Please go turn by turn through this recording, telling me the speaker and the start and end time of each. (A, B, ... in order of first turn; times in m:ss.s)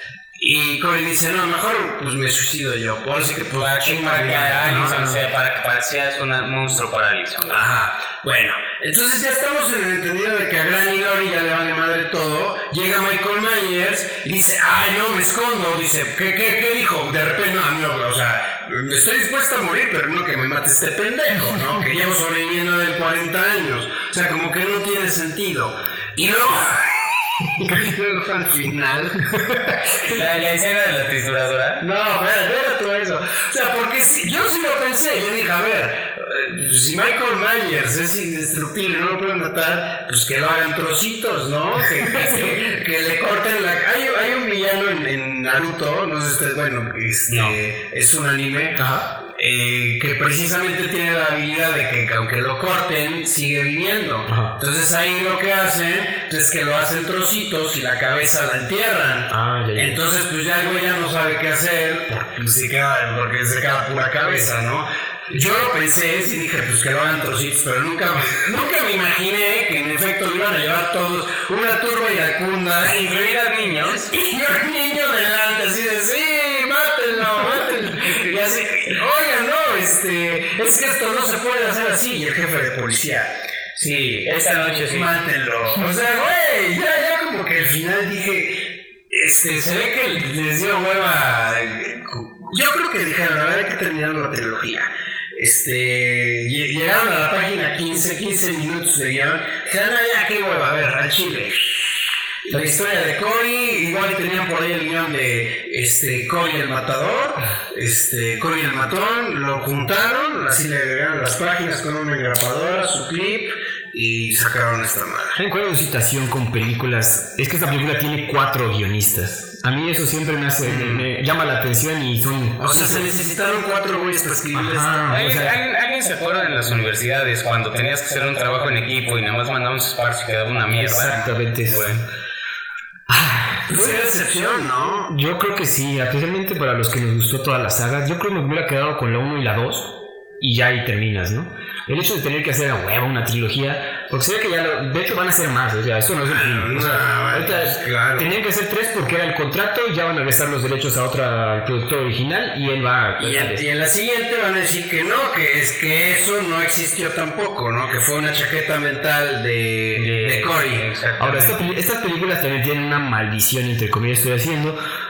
0:00.4-0:05.2 A
0:03.5-0:07.6 B
0:07.5-0:29.4 A
0:30.0-0:31.8 B
0:31.8-1:23.3 A
0:47.3-0:47.6 B
0:48.8-0:49.1 C
0:54.3-0:54.5 C
0:59.3-1:00.0 C
1:12.8-1:14.1 B
1:23.8-1:25.1 B
1:24.8-1:55.4 A
1:55.4-2:03.0 C
2:00.6-2:01.1 B
2:02.6-2:05.2 A
2:04.5-2:05.6 C
2:05.1-2:12.0 B
2:10.8-2:12.0 C
2:13.1-2:14.2 C
2:13.7-2:15.1 A
2:15.1-2:33.6 C
2:26.3-2:28.3 A
2:33.2-2:40.8 A
2:40.0-2:41.6 B
2:41.2-2:44.8 C